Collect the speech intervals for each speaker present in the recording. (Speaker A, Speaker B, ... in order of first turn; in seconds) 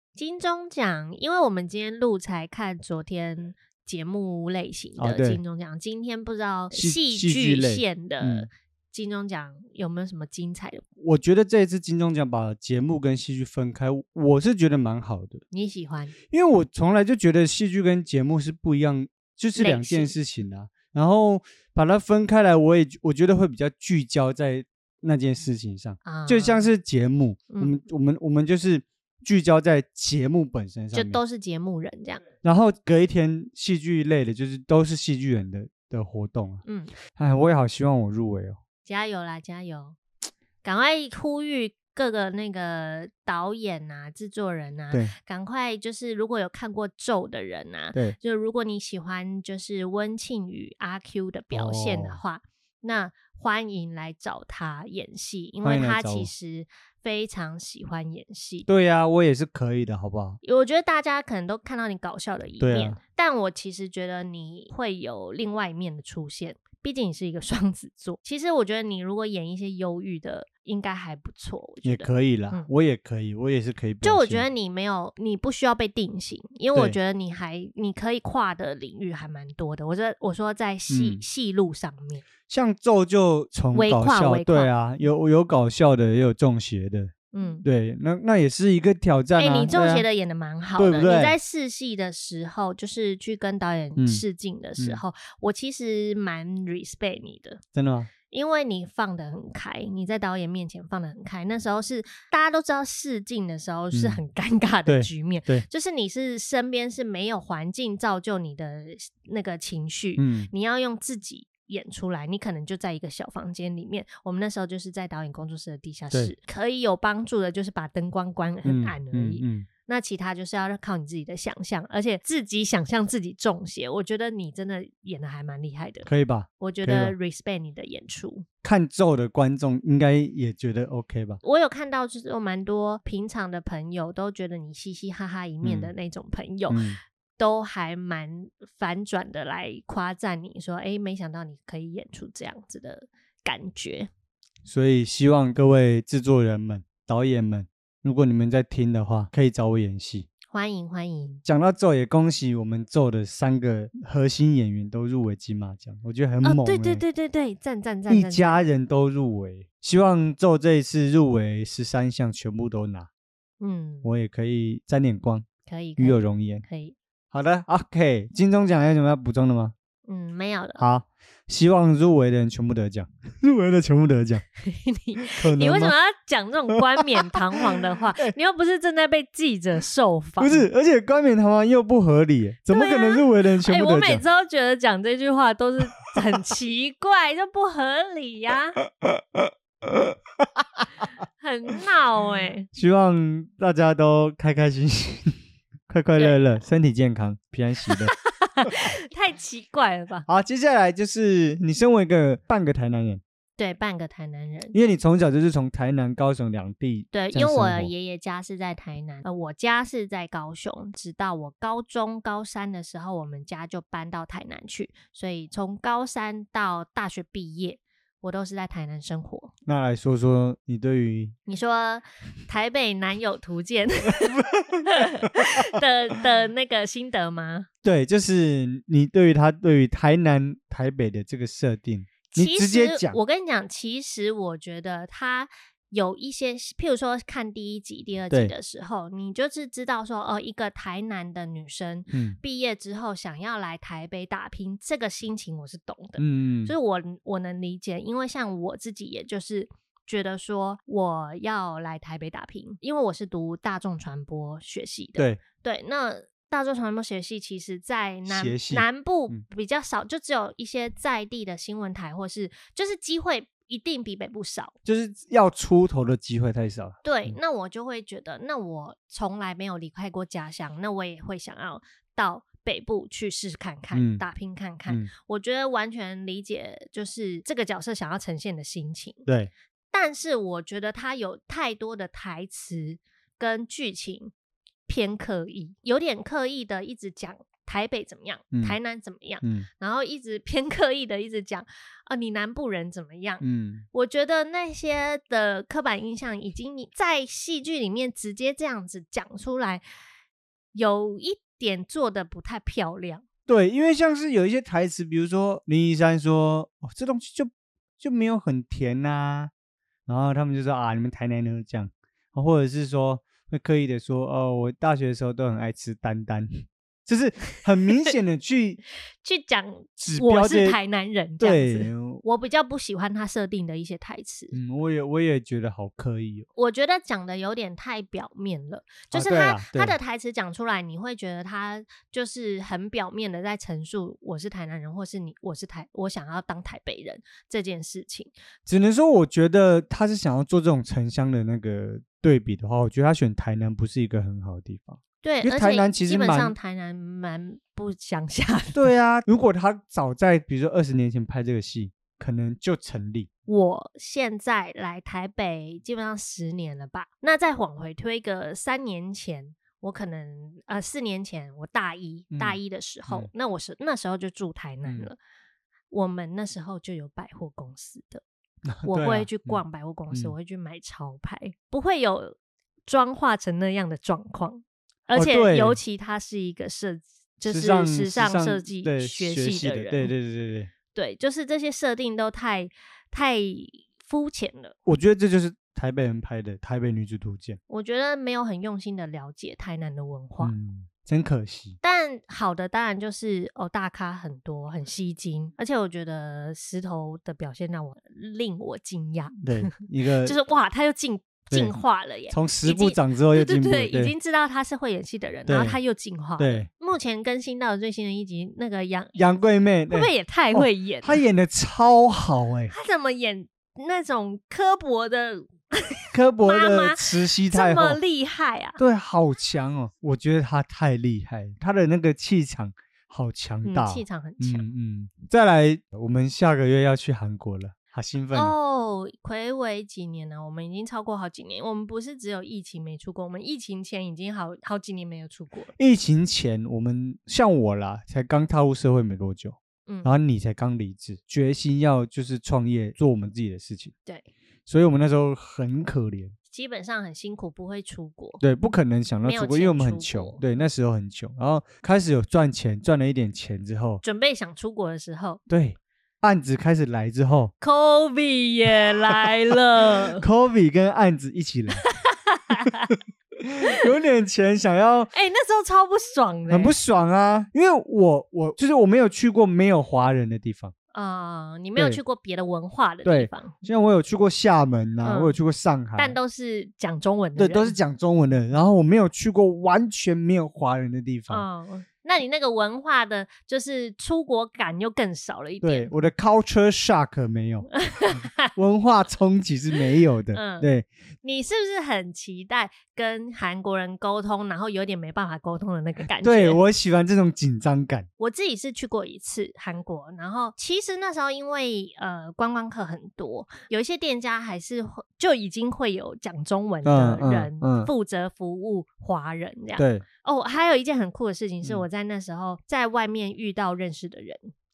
Speaker A: 0.2-10.8, 15.5-16.1, 19.6-20.1, 26.1-26.6, 30.9-32.3, 36.6-36.9, 38.9-40.0, 40.6-58.7, 60.4-72.7, 74.0-82.3, 83.7-84.7, 87.3-87.7, 89.4-97.6, 98.3-126.1, 126.6-128.5, 131.4-136.8, 137.4-144.1, 150.5-151.4, 156.4-158.7, 163.6-164.1, 165.7-166.9, 170.1-170.8, 174.6-180.7, 182.7-188.8, 191.4-192.7, 197.9-200.3, 203.6-204.8, 207.1-219.5, 221.5-227.7, 232.3-264.8, 267.0-279.2, 279.9-284.3, 284.9-299.8, 300.7-303.2, 319.2-324.5, 326.6-338.3, 345.2-348.9, 353.5-365.2, 365.9-368.2, 368.9-380.1, 380.9-384.8, 387.7-390.5, 391.8-399.7, 400.2-409.3, 409.9-411.2, 412.7-418.8, 423.6-424.6, 428.3-435.7, 439.9-440.1, 446.5-448.4, 449.2-450.4, 454.0-455.4, 457.6-460.2, 461.9-462.9, 465.1-466.8, 470.9-473.6, 475.0-475.4, 476.0-477.8, 481.3-485.9, 487.8-488.5, 490.3-490.7, 491.2-496.6, 498.2-514.5
Speaker B: 5.0-5.4, 6.7-8.5, 11.0-15.4, 16.3-31.2, 32.4-38.6, 51.5-52.2, 55.6-56.3, 58.7-60.4, 62.6-63.0, 71.8-74.5, 80.9-81.2, 82.5-90.0, 90.8-91.4, 94.0-94.2, 97.7-98.1, 103.9-104.2, 104.9-105.7, 110.2-110.5, 118.6-119.7, 126.0-127.2, 128.6-131.4, 135.6-135.9, 136.7-137.0, 144.7-150.3, 151.4-157.0, 158.1-163.1, 164.0-165.5, 166.0-166.7, 167.3-169.7, 170.8-174.4, 175.2-175.9, 177.3-178.3, 180.4-184.2, 189.0-190.8, 192.7-198.1, 200.3-203.2, 204.7-207.9, 219.7-221.4, 224.2-225.3, 227.8-233.2, 242.1-242.4, 246.2-246.8, 258.3-259.4, 264.8-267.4, 273.9-274.2, 279.3-279.5, 288.5-288.8, 289.4-289.7, 293.4-293.9, 303.5-309.5, 310.1-318.8, 320.0-320.8, 321.4-322.2, 324.5-326.5, 329.1-330.0, 338.7-346.5, 348.7-353.3, 362.3-363.3, 368.7-370.3, 375.1-375.8, 377.5-380.7, 384.9-387.6, 390.4-391.8, 399.4-400.4, 401.5-401.8, 402.3-404.1, 405.5-405.8, 406.4-406.7, 409.2-412.7, 416.1-418.0, 418.8-428.6, 435.8-443.9, 444.7-446.4, 448.4-454.0, 455.5-457.5, 460.1-461.8, 463.4-465.1, 466.5-470.7, 473.1-476.2, 477.4-481.5, 485.6-487.7, 488.5-490.9, 496.2-498.1, 506.9-507.9, 509.8-510.1